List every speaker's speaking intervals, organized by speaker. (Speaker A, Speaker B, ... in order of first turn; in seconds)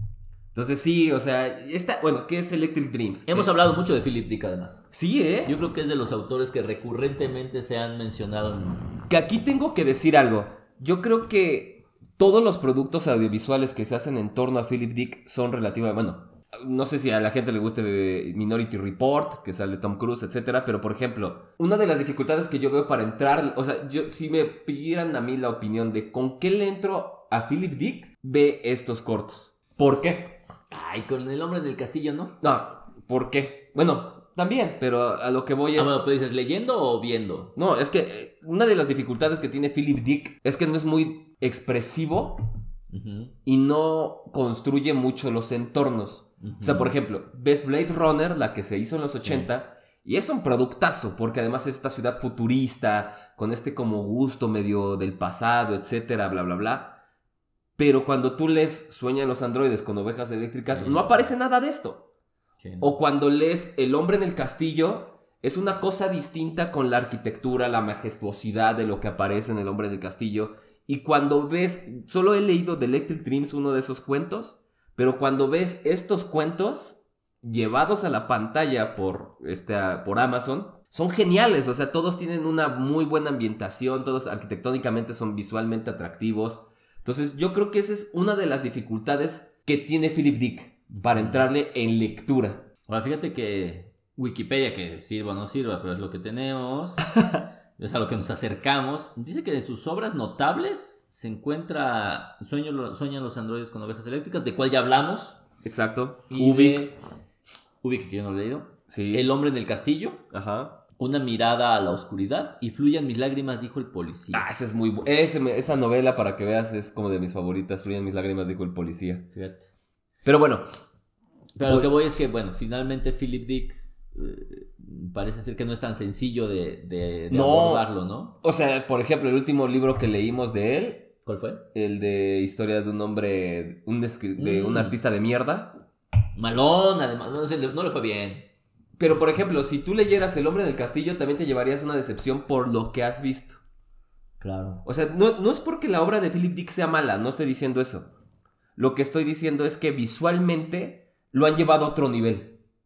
Speaker A: 0.5-3.5, 4.9-5.6, 9.1-30.4, 32.4-35.9, 37.5-42.5, 43.5-57.0, 57.8-62.0, 62.8-92.7, 105.6-106.8, 108.9-109.2, 110.3-110.8, 114.3-119.3, 120.2-120.7, 121.6-121.9, 127.3-127.8, 128.4-131.1, 131.7-135.7, 139.0-143.6, 144.8-148.1, 148.8-152.6
Speaker B: 3.3-4.8, 5.4-8.9, 30.7-32.4, 35.8-37.5, 42.9-43.3, 46.4-47.0, 60.7-61.2, 62.6-62.9, 90.9-91.5, 92.9-97.1, 97.8-105.4, 106.3-107.0, 107.8-110.2, 111.0-114.4, 119.3-119.7, 121.5-128.3, 131.2-131.6, 134.4-134.9, 136.3-138.5, 144.4-144.8